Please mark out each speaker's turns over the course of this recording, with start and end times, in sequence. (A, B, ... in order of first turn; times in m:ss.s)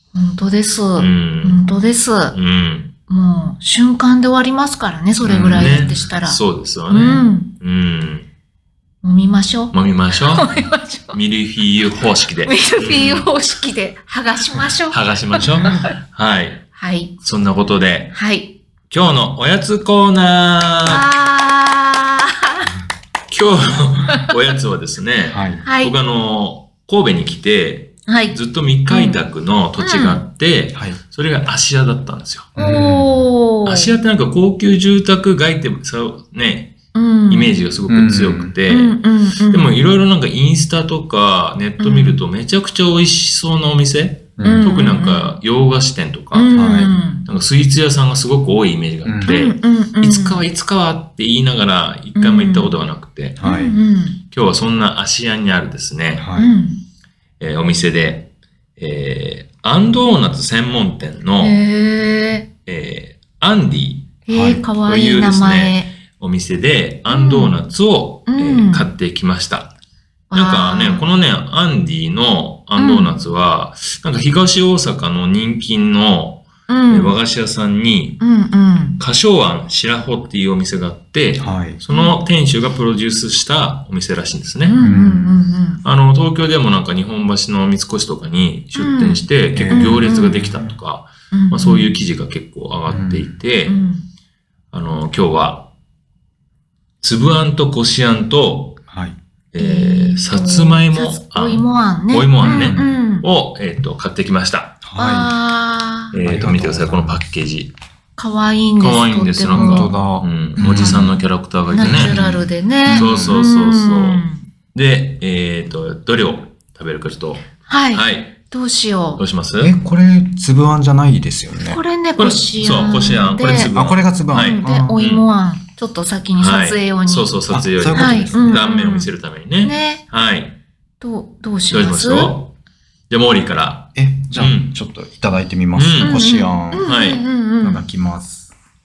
0:00.1-0:02.3 A
0:01.0-0:01.6 B
0:02.3-0:02.9 B
0:03.1-0:07.5 A
0:05.2-0:06.0 C
0:05.3-0:08.3 B
0:09.0-0:11.2 A
0:09.7-0:10.5 B
0:11.1-0:13.3 B
0:12.4-0:15.9 A
0:14.9-0:16.7 B
0:16.7-0:17.2 A
0:17.2-0:18.2 B
0:18.1-0:18.6 A
0:18.9-0:21.0 B
0:20.8-0:22.7 A
0:23.3-0:32.5 B
0:25.3-0:25.6 C
0:25.6-0:25.9 A
0:28.1-0:28.4 A
0:28.9-0:29.2 A
0:29.8-0:30.2 A
0:30.7-0:31.0 C
0:32.6-0:33.2 C
0:32.6-0:33.9 A
0:33.6-0:36.8 B
0:36.9-0:37.5 A
0:37.3-0:46.5 B
0:37.9-0:38.5 C
0:38.7-0:39.7 A
0:41.8-0:42.2 A
0:44.4-0:44.7 C
0:44.4-0:45.4 A
0:46.3-0:47.3 A
0:46.5-0:46.9 C
0:47.2-0:53.4 B
0:49.0-0:49.3 C
0:49.2-0:50.4 A
0:52.1-0:52.7 A
0:53.4-0:53.8 C
0:53.4-0:54.2 A
0:54.3-0:56.3 B
0:56.2-0:56.5 C
0:56.4-0:56.8 A
0:57.4-1:01.6 B
1:01.4-1:02.5 A
1:02.6-1:09.7 B
1:04.2-1:05.9 A
1:04.3-1:04.6 C
1:07.1-1:07.6 A
1:08.3-1:08.9 A
1:10.3-1:11.0 A
1:10.3-1:18.2 B
1:12.8-1:13.2 A
1:16.7-1:17.2 A
1:18.2-1:19.0 A
1:19.0-1:24.8 B
1:21.4-1:21.8 C
1:21.9-1:22.1 A
1:24.6-1:25.8 A
1:24.8-1:25.3 C
1:25.8-1:33.8 B
1:28.7-1:30.5 A
1:29.5-1:30.8 C
1:31.3-1:31.9 A
1:32.9-1:33.4 C
1:33.6-1:34.1 A
1:34.7-1:35.7 B
1:37.0-1:38.8 B
1:38.9-1:39.2 C
1:39.5-1:44.8 B
1:39.6-1:43.2 A
1:42.4-1:43.0 C
1:44.8-1:45.3 C
1:45.0-1:46.1 A
1:46.1-1:47.7 B
1:46.2-1:47.2 C
1:48.2-1:50.0 A
1:48.8-1:52.2 B
1:49.5-1:51.1 C
1:50.6-1:54.5 A
1:51.8-1:53.4 C
1:52.9-1:54.2 B
1:54.7-1:58.4 B
1:57.7-1:59.2 A
1:59.2-1:59.7 B
1:59.6-2:01.8 C
2:01.5-2:03.7 A
2:02.2-2:05.2 B
2:03.5-2:05.0 C
2:04.4-2:07.3 A
2:06.4-2:10.6 B
2:07.5-2:08.6 C
2:07.9-2:10.0 A
2:11.0-2:12.3 A
2:11.7-2:12.5 B
2:13.1-2:14.7 B
2:13.9-2:16.9 C
2:15.7-2:16.2 B
2:16.0-2:17.8 A
2:16.8-2:17.2 B
2:17.6-2:18.5 C